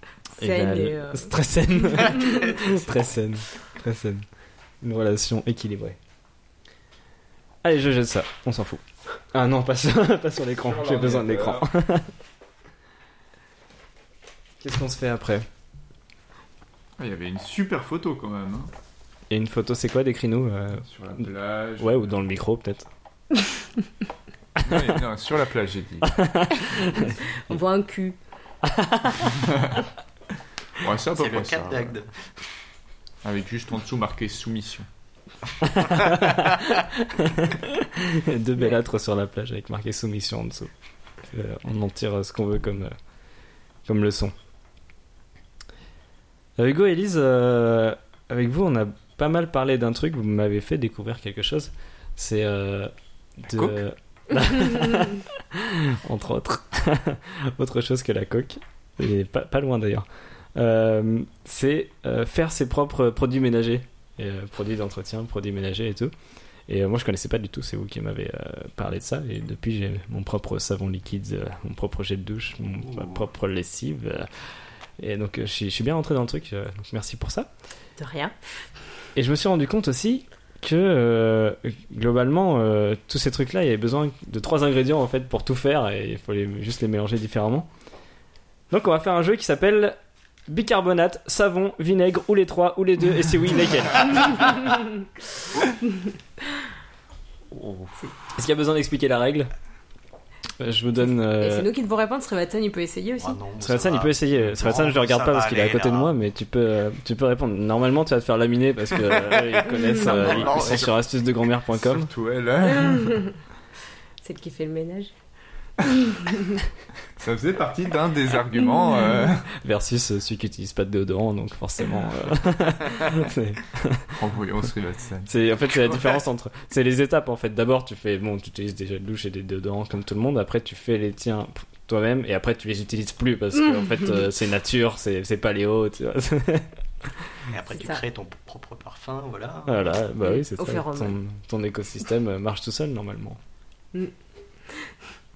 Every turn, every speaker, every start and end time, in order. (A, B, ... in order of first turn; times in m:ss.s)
0:00.4-0:01.3 A
0:00.4-0:04.2 B
0:01.9-0:02.2 A
0:02.0-0:03.1 C
0:04.8-0:06.0 B
0:07.6-0:12.1 B
0:10.6-0:11.7 D
0:14.6-0:15.4 B
0:17.0-0:18.7 D
0:19.3-0:21.3 B
0:20.8-0:22.2 D
0:21.8-0:22.9 B
0:24.6-0:27.0 D
0:26.0-0:27.6 B
0:26.9-0:28.2 A
0:28.6-0:29.4 B
0:30.8-0:31.9 D
0:31.1-0:32.2 C
0:33.2-0:34.9 D
0:35.6-0:40.7 B
0:41.3-0:42.9 B
0:43.8-0:44.3 B
0:46.6-1:06.1 B
0:53.5-0:53.8 D
1:06.7-1:14.4 B
1:15.0-1:17.5 B
1:18.0-1:18.3 A
1:19.2-1:27.7 B
1:28.7-1:30.0 B
1:30.5-1:34.5 B
1:38.3-1:39.5 B
1:40.6-1:41.7 B
1:41.4-1:43.4 A
1:43.2-1:46.1 C
1:43.6-1:52.1 B
1:49.1-1:50.9 C
1:50.2-1:50.6 D
1:51.8-1:53.2 D
1:52.6-1:53.3 A
1:54.2-1:55.1 A
1:55.9-1:56.5 A
1:57.2-1:59.5 D
1:59.5-2:04.2 B
2:04.1-2:05.3 D
2:05.3-2:16.7 B
2:17.5-2:19.9 C
2:17.7-2:18.0 A
2:19.6-2:23.4 B
2:20.2-2:21.1 A